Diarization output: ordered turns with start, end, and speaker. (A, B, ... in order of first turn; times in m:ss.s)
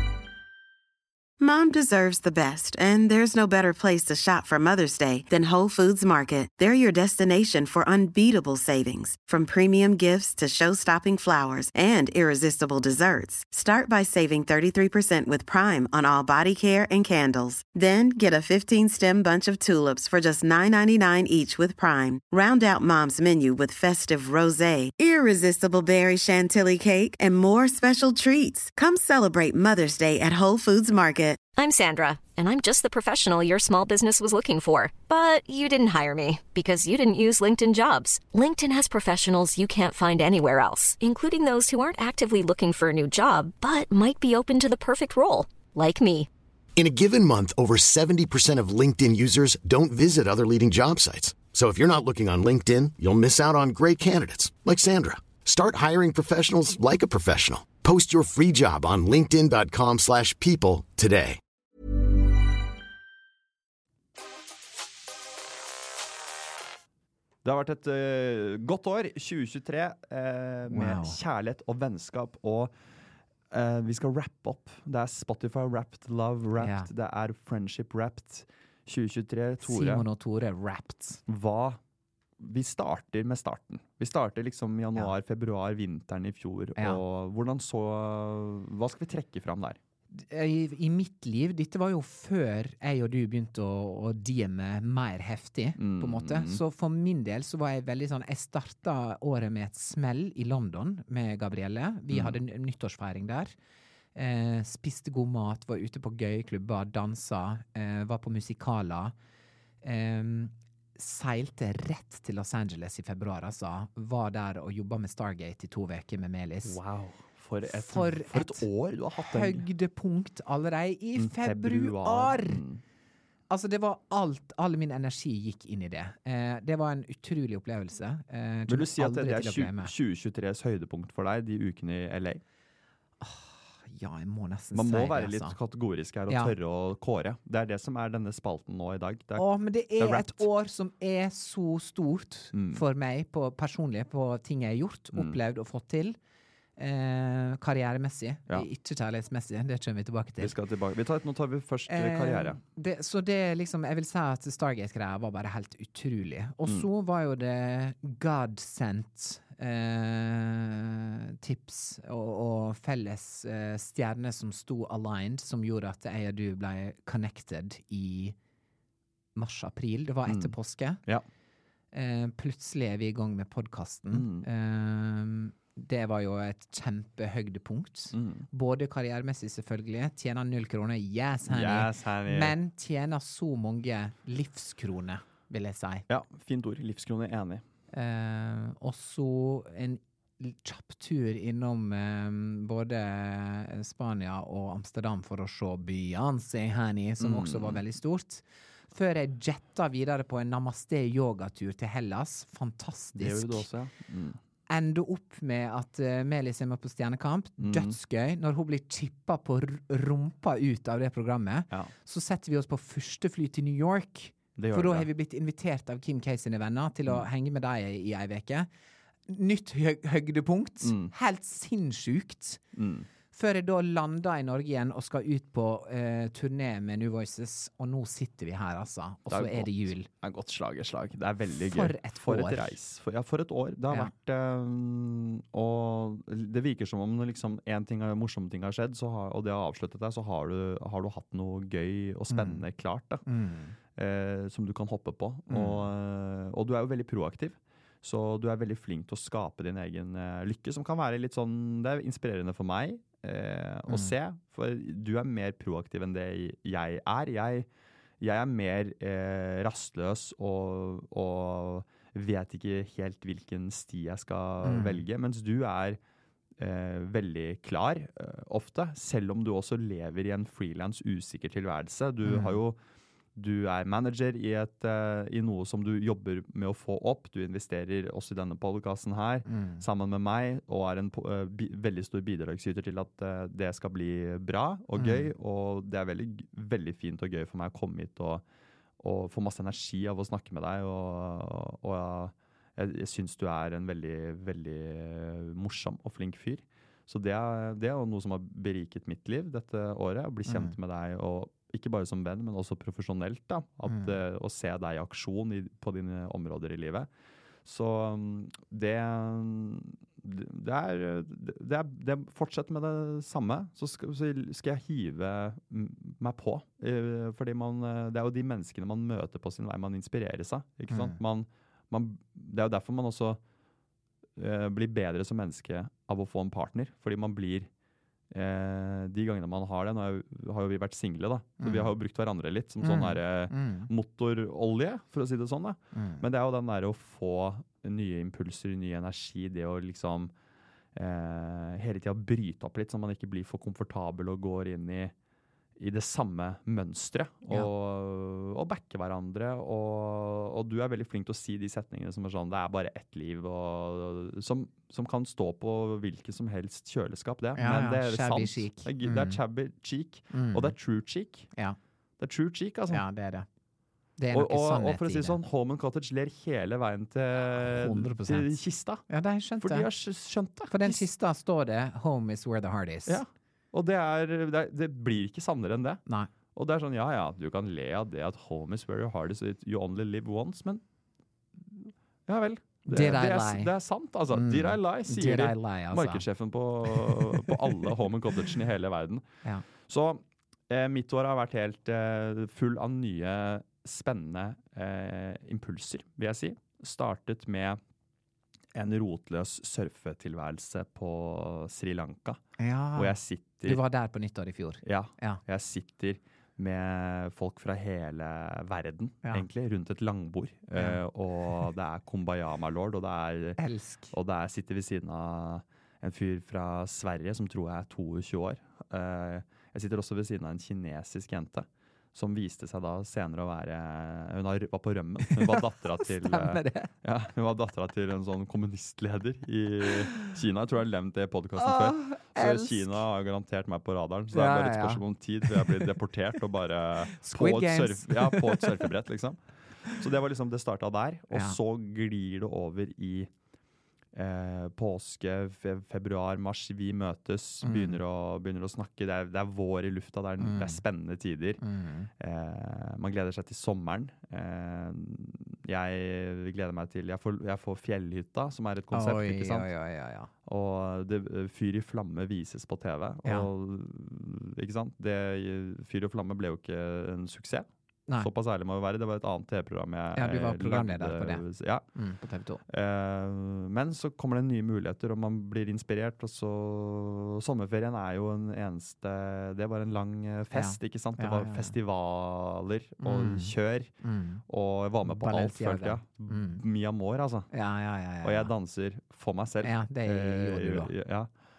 0:01.4-0:31.5 A
0:31.6-0:46.3 B
0:46.8-1:01.4 C
1:07.4-1:12.7 D
1:10.7-1:11.2 E
1:13.5-1:20.1 D
1:16.6-1:16.9 E
1:19.6-1:21.2 E
1:21.3-1:21.8 D
1:22.4-1:29.8 D
1:30.1-1:43.5 E
1:35.8-1:36.6 D
1:42.1-1:42.4 D
1:44.2-1:49.1 E
1:49.8-1:56.8 E
1:56.6-1:59.7 D
1:57.6-1:58.7 E
1:59.2-2:02.6 E
2:01.2-2:02.8 D
2:03.5-2:09.9 E
2:08.7-2:12.4 D
2:13.2-2:15.6 E
2:14.7-2:20.5 D
2:16.3-2:16.5 E
2:19.4-2:26.2 E
2:22.5-2:22.8 D
2:26.8-2:30.5 E
2:30.4-2:32.6 D
2:31.9-2:48.4 E
2:49.4-2:51.0 E
2:50.3-2:50.5 D
2:51.9-3:06.0 E
2:54.1-2:54.5 D
2:58.1-2:58.5 D
3:01.5-3:02.6 D
3:06.1-3:07.6 D
3:07.9-3:23.7 E
3:17.2-3:17.8 D
3:23.2-3:24.4 D
3:24.7-3:38.7 E
3:27.6-3:28.0 D
3:34.6-3:35.1 D
3:39.3-3:42.6 E
3:40.8-3:41.1 D
3:42.8-3:43.1 D
3:43.3-3:50.1 E
3:49.3-4:03.2 D
3:51.7-3:52.8 E
4:02.3-4:02.6 E
4:03.3-4:03.8 E
4:03.9-4:17.7 D
4:05.5-4:05.8 E
4:18.2-4:26.0 D
4:24.6-4:25.0 E
4:26.6-4:32.8 D
4:32.2-4:32.6 E
4:33.4-4:48.4 D
4:39.5-4:39.8 E
4:45.0-4:45.3 E
4:49.0-5:07.1 D
5:00.5-5:00.8 E
5:07.6-5:23.4 D
5:20.9-5:21.2 E
5:24.4-5:27.7 D
5:28.3-5:40.3 D
5:31.6-5:31.9 E
5:32.8-5:33.9 E
5:35.9-5:36.2 E
5:41.0-5:45.1 D
5:45.8-6:01.5 D
5:57.6-5:59.4 E
6:00.3-6:00.7 E
6:02.2-6:03.0 D
6:02.9-6:03.5 E
6:04.2-6:05.4 E
6:04.3-6:09.0 D
6:07.5-6:08.5 E
6:09.1-6:09.9 E
6:09.6-6:11.0 D
6:10.7-6:13.2 E
6:13.1-6:16.0 D
6:16.6-6:20.8 D
6:21.7-6:29.2 D
6:22.9-6:23.7 E
6:24.3-6:26.2 E
6:26.9-6:27.9 E
6:29.8-6:37.8 D
6:38.7-6:42.4 D
6:42.6-6:45.4 E
6:43.0-6:43.8 D
6:44.8-6:53.6 D
6:50.8-6:51.0 E
6:53.6-6:54.1 E
6:54.1-7:19.4 D
7:05.2-7:06.9 E
7:11.6-7:13.0 E
7:14.3-7:15.9 E
7:17.1-7:18.9 E
7:19.9-7:23.3 D
7:21.3-7:21.6 E
7:24.1-7:31.6 D
7:27.6-7:28.0 E
7:30.4-7:30.8 E
7:31.6-7:32.1 E
7:32.2-7:39.7 D
7:38.9-7:40.3 E
7:40.5-7:47.7 D
7:48.2-7:51.8 D
7:50.2-7:51.4 E
7:52.0-7:52.6 E
7:52.7-8:03.9 D
8:00.5-8:01.7 E
8:03.0-8:04.4 E
8:04.5-8:07.5 D
8:05.0-8:06.6 E
8:07.5-8:08.5 E
8:08.2-8:11.3 D
8:09.6-8:10.9 E